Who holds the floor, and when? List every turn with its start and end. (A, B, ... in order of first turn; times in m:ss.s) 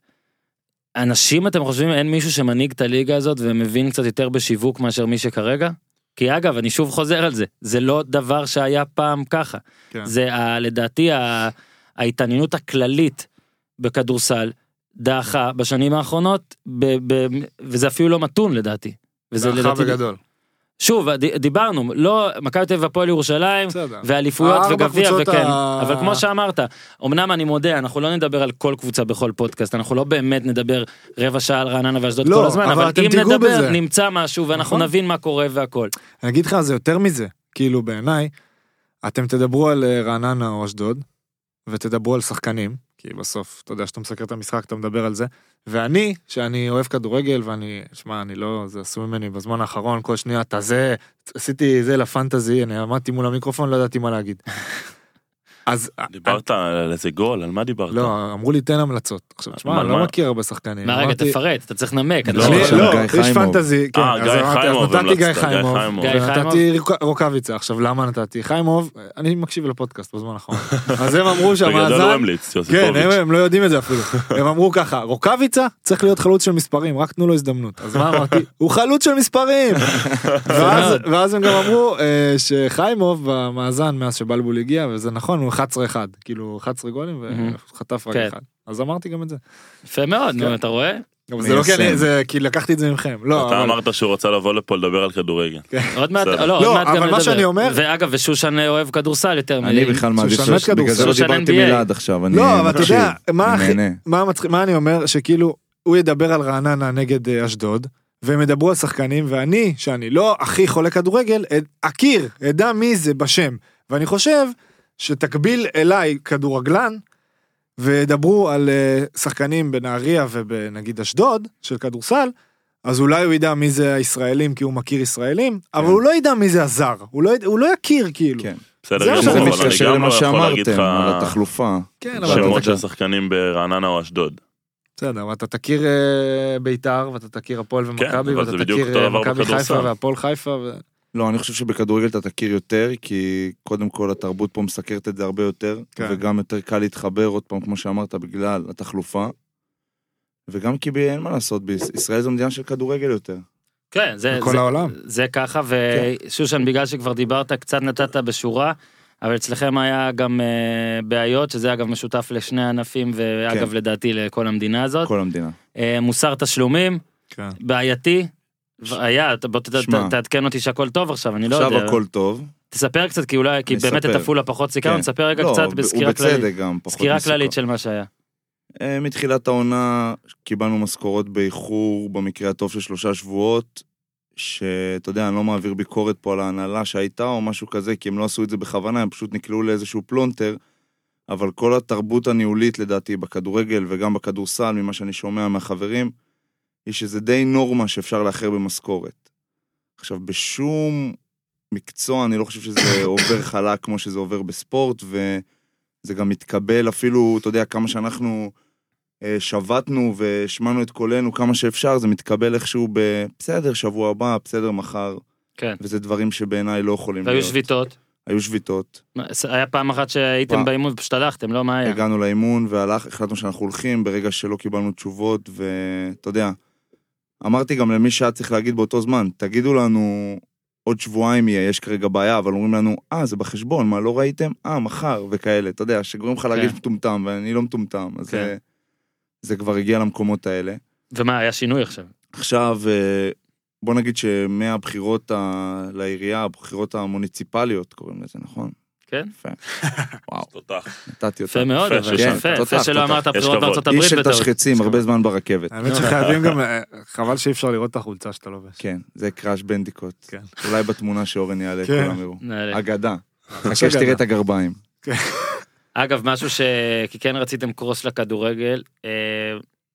0:01.0-0:13.3 A
0:13.8-0:20.0 A
0:19.4-0:20.2 B
0:20.8-0:35.9 A
0:23.7-0:26.2 B
0:32.2-0:33.8 B
0:34.5-0:34.9 B
0:36.2-0:38.3 B
0:39.0-0:41.0 B
0:41.7-0:54.4 B
0:55.7-0:56.4 B
0:56.1-0:58.1 C
0:57.9-1:01.4 B
0:59.6-1:00.1 C
1:00.8-1:02.9 A
1:02.3-1:03.6 D
1:02.3-1:03.0 C
1:02.3-1:29.4 B
1:03.9-1:06.2 C
1:06.0-1:06.6 A
1:10.7-1:10.9 C
1:11.6-1:13.2 C
1:19.9-1:20.9 C
1:20.5-1:21.0 A
1:27.3-1:27.6 A
1:29.9-1:31.0 A
1:31.3-1:33.8 B
1:31.4-1:32.1 D
1:33.3-1:36.5 C
1:35.7-1:36.0 B
1:35.9-1:40.0 A
1:36.5-1:37.8 B
1:39.6-1:44.0 D
1:40.2-1:41.2 B
1:40.9-1:41.8 A
1:42.3-1:57.0 B
1:57.8-2:02.3 B
2:02.8-2:09.8 B
2:08.4-2:12.8 D
2:08.8-2:11.4 C
2:12.0-2:12.7 B
2:12.2-2:14.4 C
2:15.0-2:20.8 B
2:18.0-2:19.9 C
2:21.1-2:29.3 D
2:26.0-2:26.2 B
2:30.5-2:33.4 D
2:33.9-2:45.1 A
2:34.3-2:34.9 B
2:45.0-2:45.5 D
2:45.8-2:47.0 A
2:47.3-2:47.6 B
2:47.6-2:48.3 A
2:48.8-2:52.0 A
2:49.8-2:50.1 D
2:51.5-2:52.5 D
2:52.7-2:58.1 A
2:53.7-2:54.3 D
2:54.8-2:57.5 D
2:58.8-3:03.8 D
3:04.4-3:10.6 D
3:11.3-3:16.1 D
3:16.8-3:19.2 D
3:20.0-3:21.2 D
3:21.7-3:25.4 D
3:26.0-3:28.5 D
3:29.2-3:35.2 D
3:35.8-3:37.6 D
3:37.2-3:37.9 A
3:38.2-3:39.0 D
3:39.2-3:42.0 A
3:41.8-3:46.6 D
3:47.4-3:58.6 D
3:56.5-3:56.8 A
3:59.4-4:00.8 D
4:01.1-4:02.1 A
4:02.4-4:08.7 D
4:09.3-4:10.5 D
4:10.5-4:10.9 C
4:11.0-4:13.2 D
4:11.5-4:14.5 A
4:11.8-4:12.5 C
4:13.3-4:13.8 C
4:13.8-4:15.8 D
4:15.7-4:18.8 B
4:15.9-4:16.6 C
4:18.8-4:24.8 D
4:21.8-4:22.2 B
4:22.4-4:22.8 A
4:23.5-4:24.2 B
4:25.0-4:25.6 B
4:26.0-4:29.6 A